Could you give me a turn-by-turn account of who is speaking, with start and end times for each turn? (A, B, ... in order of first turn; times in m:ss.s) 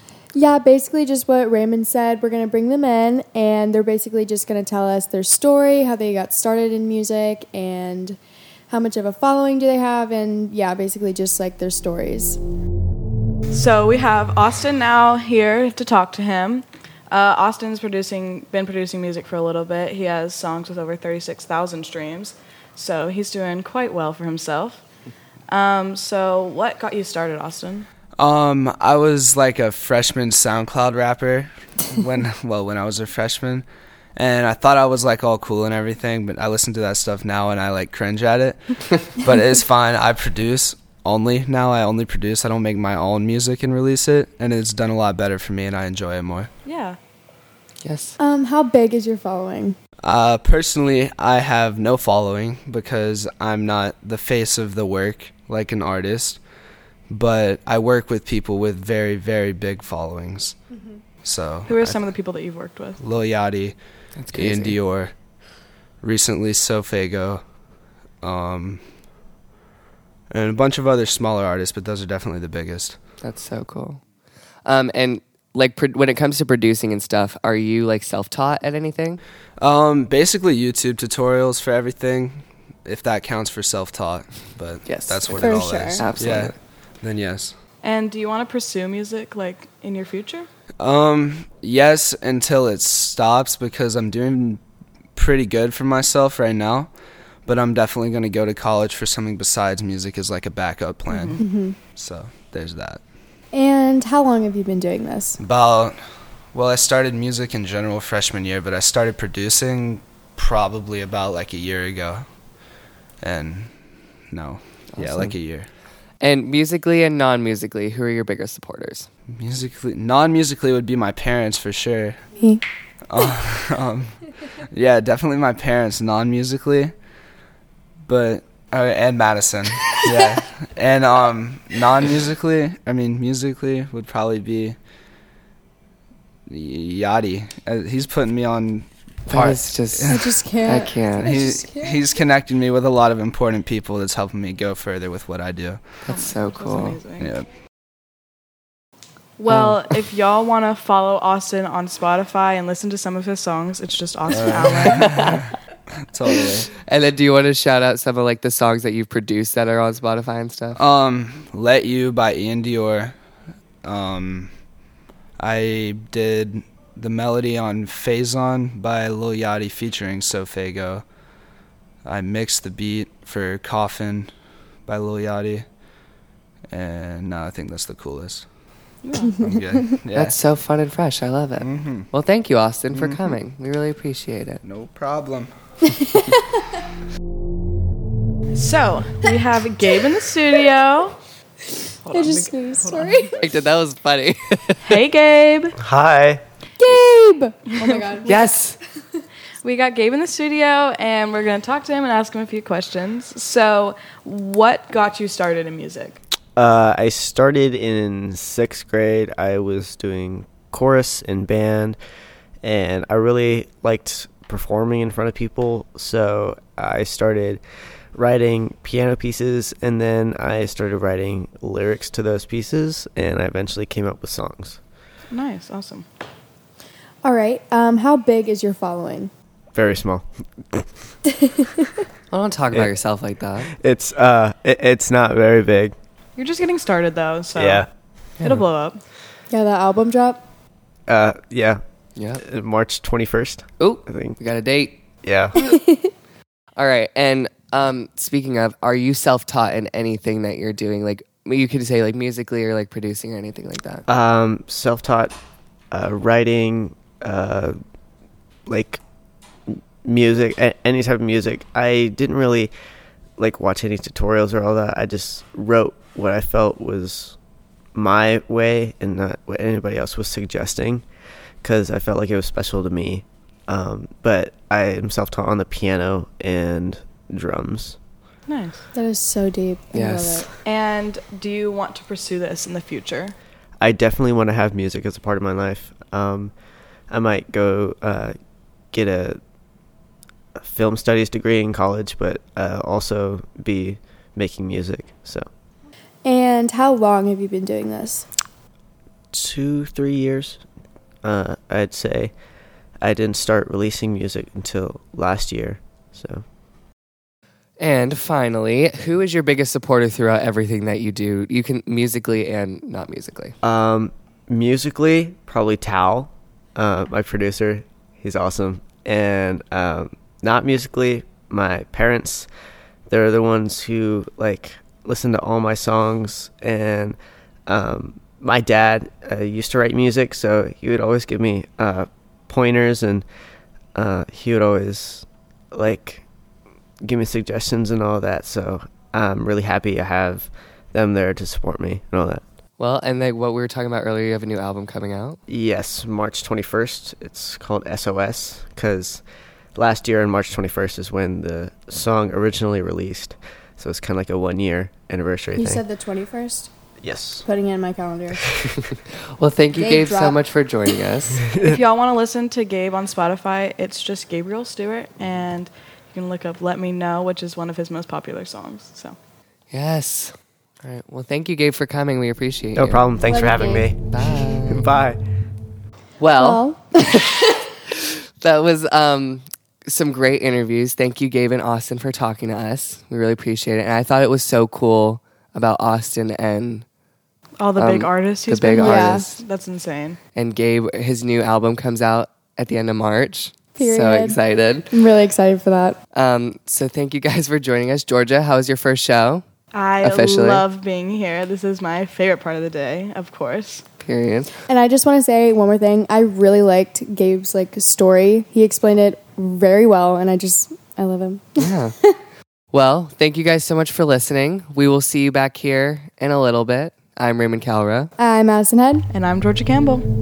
0:00.3-0:08.2 A
0:08.7-0:12.4 A
0:13.5-0:24.8 B
0:25.5-0:27.9 B
0:28.2-0:38.6 C
0:39.1-0:46.5 C
0:46.6-0:47.0 B
0:47.8-0:48.2 D
0:48.2-0:49.8 A
0:50.0-0:56.4 C
0:57.1-1:00.6 C
1:01.2-1:02.1 C
1:01.7-1:03.0 B
1:03.0-1:03.8 C
1:04.2-1:04.8 D
1:04.3-1:05.1 C
1:06.0-1:07.4 C
1:08.2-1:08.8 C
1:10.3-1:13.0 C
1:13.2-1:14.0 D
1:14.6-1:19.2 D
1:19.6-1:27.6 C
1:24.9-1:26.6 D
1:25.3-1:26.1 A
1:27.8-1:30.5 B
1:30.8-1:34.6 C
1:35.2-1:36.9 C
1:37.5-1:41.4 C
1:41.1-1:41.4 B
1:41.4-1:41.8 A
1:41.9-1:43.0 C
1:43.5-1:45.4 A
1:45.4-1:46.0 C
1:46.5-1:52.3 C
1:53.2-1:53.7 C
1:54.3-1:55.7 C
1:54.9-1:55.4 D
1:56.2-1:59.1 D
1:59.3-2:02.2 C
2:03.1-2:04.2 C
2:04.7-2:06.9 C
2:08.1-2:14.8 C
2:16.5-2:20.3 C
2:19.3-2:21.4 D
2:20.1-2:22.0 A
2:21.2-2:25.9 C
2:26.0-2:27.0 D
2:26.1-2:27.3 B
2:27.2-2:27.5 C
2:29.4-2:35.3 B
2:29.5-2:29.8 D
2:34.3-2:35.4 C
2:34.9-2:35.4 D
2:36.1-2:36.7 C
2:36.9-2:40.8 D
2:40.8-2:43.2 C
2:43.8-2:44.5 C
2:45.4-2:51.0 C
2:52.0-2:54.3 C
2:54.9-2:55.7 C
2:56.7-2:58.5 C
2:59.0-2:59.4 B
2:59.4-3:00.4 C
2:59.4-2:59.8 A
3:00.1-3:04.6 D
3:01.6-3:02.1 C
3:02.9-3:03.4 C
3:04.6-3:05.5 C
3:08.6-3:11.2 B
3:12.0-3:13.3 B
3:12.1-3:13.5 A
3:13.4-3:14.8 D
3:14.8-3:15.8 B
3:15.8-3:16.4 E
3:16.8-3:18.5 A
3:17.8-3:18.5 B
3:18.3-3:18.8 D
3:19.6-3:26.2 B
3:26.6-3:32.0 E
3:32.6-3:37.6 E
3:38.1-3:44.8 E
3:45.3-3:46.1 B
3:47.2-3:49.3 A
3:49.8-3:50.9 E
3:52.3-3:53.7 D
3:53.8-3:56.0 E
3:56.4-3:57.9 B
3:57.6-3:57.9 E
3:58.4-3:59.0 B
3:59.5-4:00.4 A
4:01.1-4:01.8 E
4:02.2-4:02.4 D
4:02.4-4:04.4 E
4:03.8-4:05.0 D
4:05.2-4:05.6 E
4:06.8-4:14.0 D
4:14.1-4:15.4 E
4:15.9-4:17.8 E
4:18.7-4:19.0 E
4:19.7-4:22.7 E
4:23.4-4:27.4 E
4:28.0-4:31.0 E
4:31.6-4:38.0 E
4:38.5-4:38.8 B
4:38.9-4:40.5 A
4:39.9-4:40.5 D
4:40.6-4:43.4 B
4:43.8-4:46.5 E
4:47.1-4:48.3 E
4:48.9-4:49.4 E
4:50.6-4:55.5 E
4:56.2-4:58.3 A
4:59.3-5:00.6 E
5:01.2-5:02.3 E
5:03.0-5:06.4 E
5:07.8-5:13.6 D
5:13.6-5:22.5 E
5:23.1-5:33.3 E
5:34.0-5:36.2 E
5:37.0-5:42.4 E
5:42.8-5:45.4 D
5:45.5-5:49.2 E
5:49.8-5:55.8 E
5:55.6-5:56.7 A
5:57.0-5:57.4 E
5:57.4-5:58.4 A
5:59.4-6:01.4 D
5:59.8-6:00.4 A
6:01.5-6:01.8 E
6:01.6-6:09.2 B
6:09.7-6:13.0 D
6:12.8-6:15.2 E
6:13.3-6:13.9 A
6:14.1-6:14.9 D
6:16.2-6:17.8 D
6:16.4-6:17.0 A
6:18.4-6:26.9 D
6:27.6-6:30.2 B
6:27.8-6:29.4 D
6:28.8-6:29.3 A
6:30.4-6:34.9 D
6:33.8-6:36.0 A
6:36.1-6:39.4 D
6:39.7-6:43.8 B
6:40.0-6:40.6 D
6:44.0-6:44.5 D
6:44.7-6:52.1 A
6:51.6-6:51.9 D
6:52.7-6:58.1 D
6:58.2-6:59.1 A
6:59.1-7:00.1 B